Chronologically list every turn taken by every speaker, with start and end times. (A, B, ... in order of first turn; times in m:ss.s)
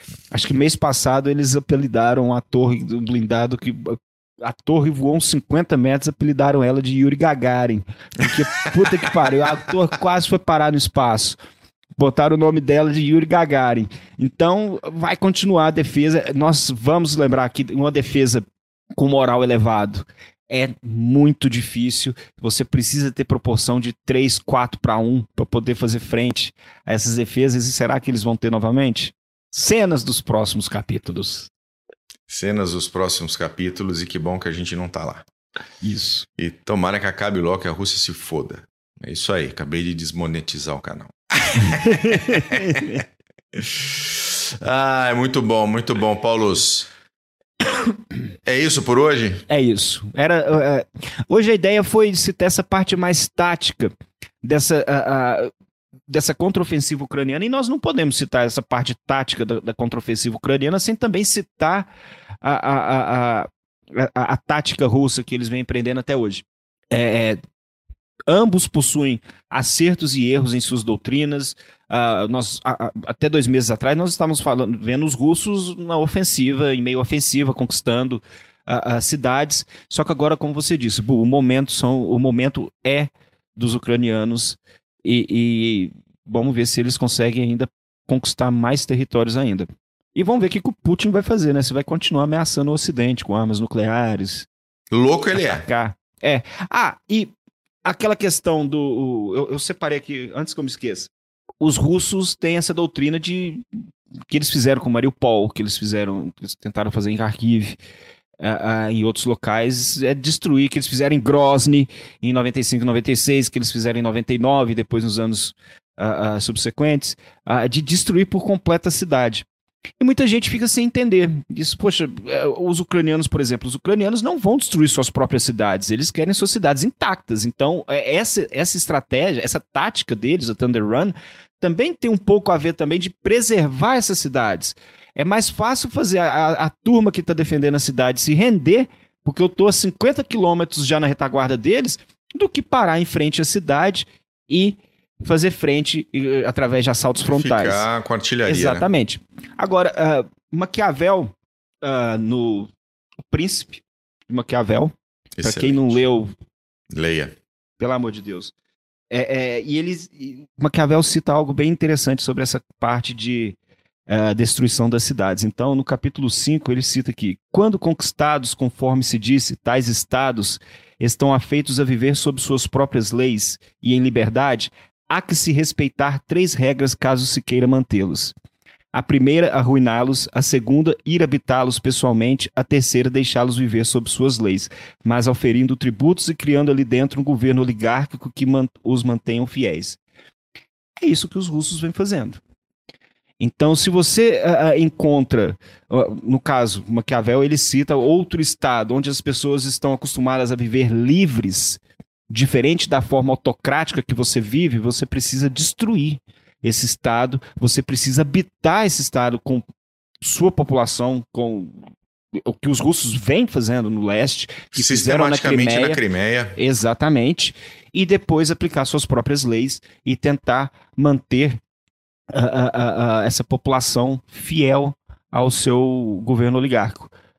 0:00.3-0:11.4 A
0:12.0-0:18.4 A
0:19.0-0:31.5 A
0:32.3-0:35.2 B
0:35.8-0:36.3 A
0:36.4-0:42.9 B
0:41.8-0:43.0 A
0:43.6-0:46.9 B
0:48.4-0:49.4 B
0:49.5-0:55.5 A
0:56.1-1:01.9 A
1:02.4-1:07.4 A
1:08.3-1:34.5 A
1:34.9-1:35.7 B
1:35.3-1:37.3 A
1:37.8-1:43.6 A
1:44.3-1:47.8 A
1:48.4-1:59.5 A
2:00.0-2:27.9 A
2:27.3-2:28.9 B
2:28.5-2:32.7 A
2:33.3-2:36.3 A
2:35.4-2:36.0 B
2:36.9-2:37.4 B
2:37.8-2:38.5 A
2:39.1-2:43.6 A
2:44.1-2:58.4 A
2:58.9-3:10.0 A
3:11.0-3:12.4 A
3:13.4-3:29.6 A
3:30.2-3:36.0 A
3:34.7-3:36.6 B
3:36.6-3:41.6 A
3:42.3-3:47.1 A